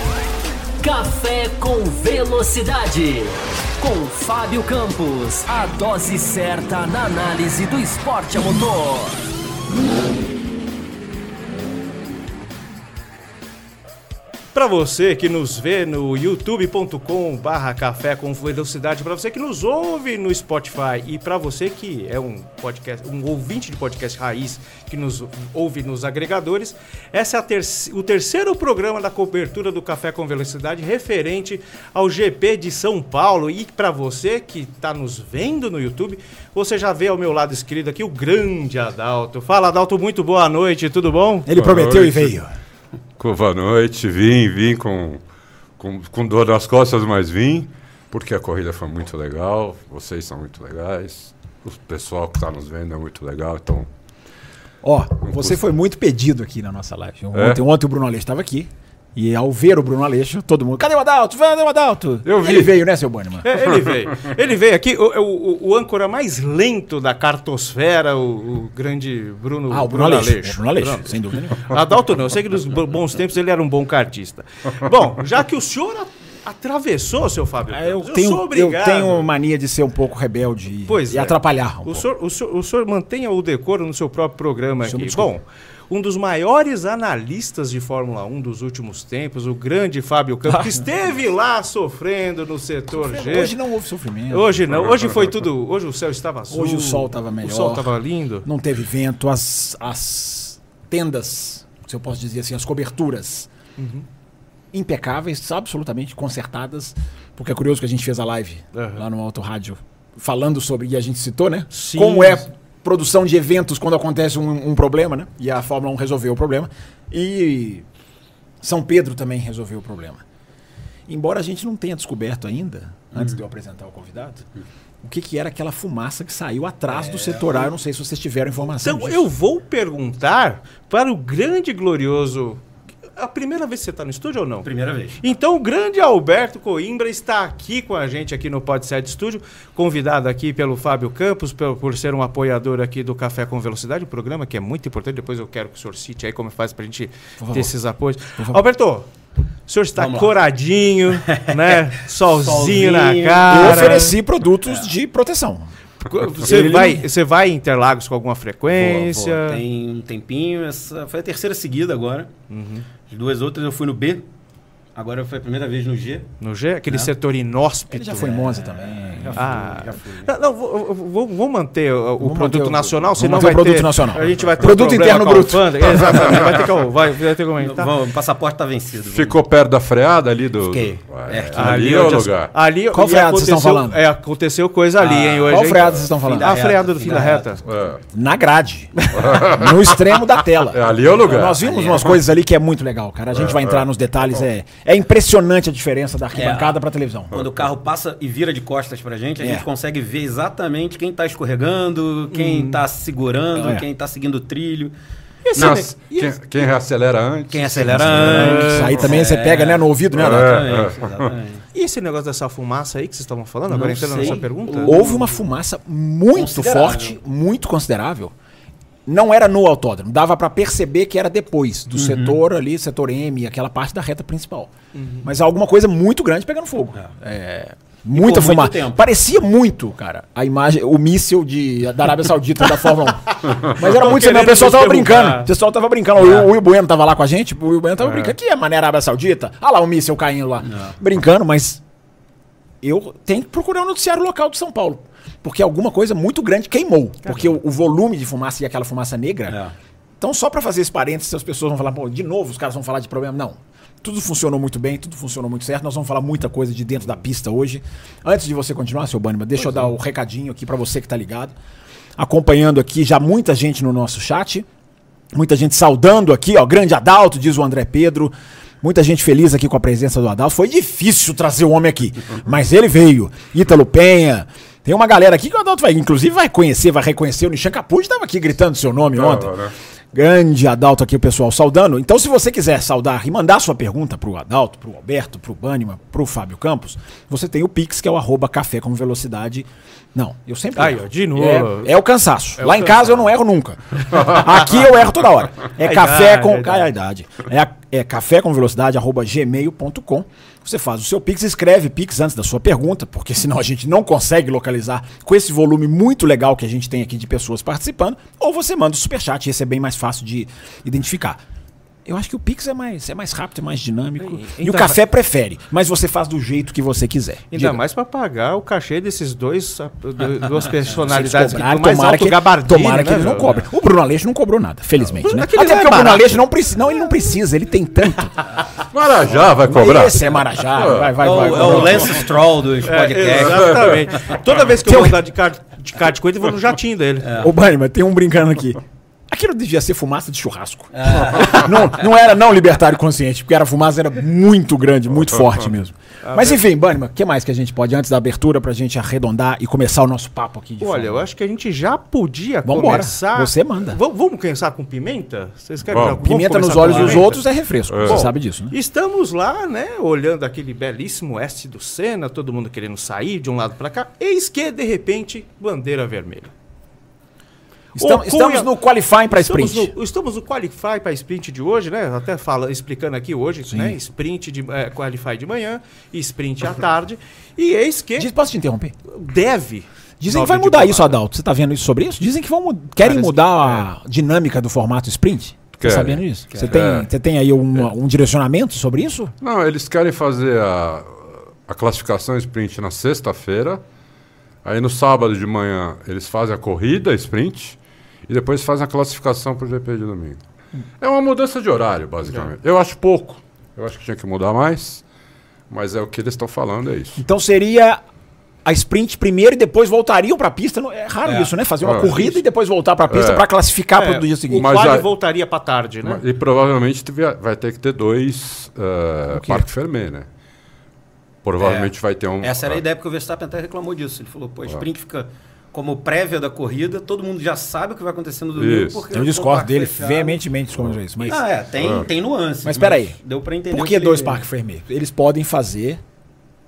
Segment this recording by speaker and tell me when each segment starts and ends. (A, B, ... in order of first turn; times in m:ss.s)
0:00.8-0:09.2 A
0:14.5-0:41.5 B
0:41.4-0:42.5 C
0:41.5-0:42.3 D
0:43.2-0:45.2 D
0:45.8-0:53.9 D
0:54.8-1:03.5 C
0:57.3-0:57.6 D
1:02.2-1:02.8 D
1:03.4-1:19.3 B
1:03.6-1:04.1 D
1:09.7-1:11.8 C
1:17.7-1:22.0 C
1:20.9-1:33.5 B
1:24.8-1:25.3 C
1:30.5-1:30.8 C
1:32.9-1:34.6 C
1:34.3-1:38.5 B
1:34.7-1:35.3 D
1:36.5-1:37.9 C
1:38.4-1:43.5 C
1:43.8-1:44.0 B
1:44.7-1:57.8 C
1:48.7-1:49.0 B
1:51.7-1:52.5 B
1:58.6-2:00.2 C
2:01.1-2:04.4 C
2:05.0-2:09.2 C
2:06.9-2:07.7 E
2:08.8-2:12.6 B
2:13.2-2:29.1 B
2:14.6-2:15.2 E
2:27.4-2:27.7 C
2:29.7-2:34.2 B
2:30.0-2:30.3 E
2:31.3-2:31.7 E
2:32.2-2:34.0 E
2:33.5-2:35.7 C
2:36.0-2:39.6 B
2:36.2-2:37.1 C
2:38.7-2:42.3 E
2:42.5-2:42.8 B
2:43.1-2:44.2 E
2:44.9-2:46.3 E
2:46.4-2:48.6 B
2:47.9-2:49.6 C
2:48.6-2:50.3 E
2:49.3-2:57.9 B
2:52.2-2:56.4 C
2:57.6-2:59.4 E
2:59.0-3:02.5 D
3:00.7-3:02.2 E
3:01.5-3:07.6 B
3:02.9-3:04.0 C
3:05.0-3:05.6 E
3:05.5-3:06.7 C
3:06.1-3:07.6 E
3:07.6-3:08.0 D
3:08.1-3:17.5 C
3:09.1-3:12.2 D
3:11.6-3:12.0 E
3:13.3-3:13.8 D
3:16.3-3:16.8 E
3:17.3-3:24.9 E
3:19.4-3:19.6 C
3:22.3-3:22.8 B
3:23.5-3:23.8 C
3:25.4-3:26.4 B
3:25.5-3:25.8 E
3:25.6-3:28.8 D
3:27.5-3:31.6 E
3:28.0-3:30.8 C
3:28.2-3:29.0 B
3:30.2-3:31.3 D
3:31.7-3:35.2 B
3:33.7-3:35.1 E
3:34.8-3:38.3 C
3:36.3-3:37.2 E
3:39.0-3:44.7 C
3:41.9-3:42.4 E
3:44.9-3:45.2 B
3:45.2-4:01.8 C
3:48.1-3:49.0 E
3:53.5-3:55.5 B
4:00.6-4:00.9 E
4:02.8-4:09.6 C
4:07.2-4:07.5 B
4:09.5-4:09.7 E
4:10.2-4:21.5 C
4:22.2-4:24.7 C
4:25.3-5:11.4 C
4:39.2-4:39.7 D
4:50.7-4:52.0 B
4:52.6-4:53.2 B
4:55.8-4:56.9 B
5:12.0-5:17.8 C
5:14.2-5:15.0 B
5:17.5-5:23.6 B
5:20.8-5:28.4 C
5:25.1-5:26.4 B
5:28.9-5:31.9 D
5:29.3-5:32.3 C
5:31.2-5:34.0 E
5:31.6-5:32.0 B
5:32.8-5:37.4 B
5:33.3-5:34.0 D
5:34.8-5:35.2 C
5:37.2-5:37.5 E
5:37.4-5:51.2 C
5:40.9-5:41.9 E
5:46.2-5:46.6 B
5:50.8-5:57.4 B
5:52.6-5:54.0 C
5:55.9-5:56.2 D
5:56.1-5:58.7 C
5:56.8-5:57.2 D
5:57.9-5:58.2 D
5:58.0-6:06.5 B
6:07.9-6:08.7 B
6:07.9-6:09.9 C
6:09.3-6:18.3 B
6:13.7-6:14.0 C
6:18.2-6:18.9 C
6:19.1-6:21.2 B
6:20.2-6:29.3 C
6:23.0-6:23.9 B
6:25.8-6:27.1 D
6:29.4-6:33.8 D
6:34.6-6:40.4 D
6:41.0-6:45.0 D
6:45.7-6:47.2 D
6:47.2-6:48.0 C
6:48.6-6:54.7 C
6:51.2-6:52.4 E
6:51.8-6:52.1 D
6:53.1-6:53.5 D
6:54.0-6:56.2 B
6:54.5-6:55.1 D
6:56.0-7:00.3 D
6:59.3-6:59.6 C
7:01.4-7:02.8 D
7:01.6-7:10.4 E
7:08.5-7:09.0 D
7:09.1-7:11.4 C
7:11.2-7:14.4 E
7:11.8-7:12.1 D
7:12.6-7:13.2 C
7:13.7-7:16.0 C